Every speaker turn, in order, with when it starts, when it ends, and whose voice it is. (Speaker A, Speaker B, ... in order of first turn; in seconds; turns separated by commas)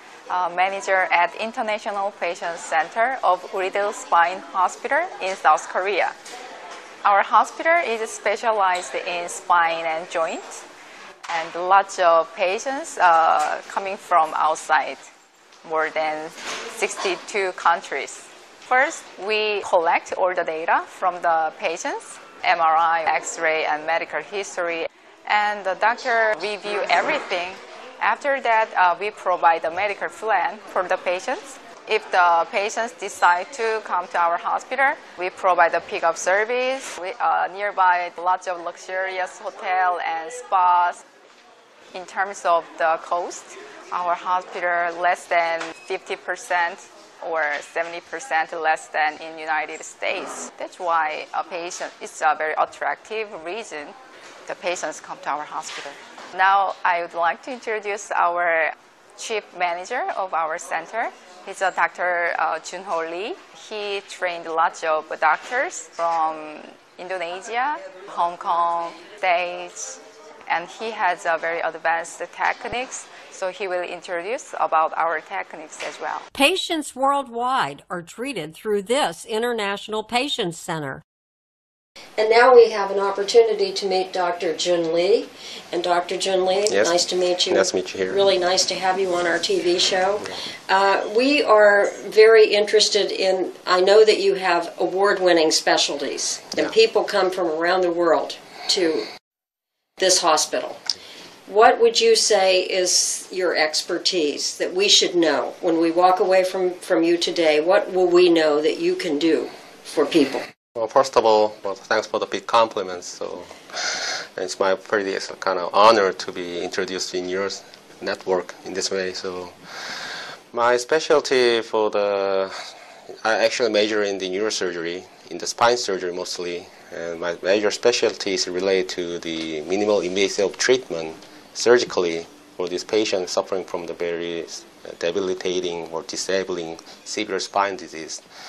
Speaker A: 0.3-6.1, Speaker A: 7.0-10.6, Speaker A: 11.3-15.1, Speaker A: 15.6-41.0, Speaker A: 41.9-76.2, Speaker B: 76.3-81.0, Speaker C: 82.2-99.0, Speaker D: 86.7-88.2, Speaker C: 100.0-100.8, Speaker C: 101.5-110.4, Speaker D: 110.8-119.5, Speaker D: 120.5-122.5, Speaker D: 123.2-138.2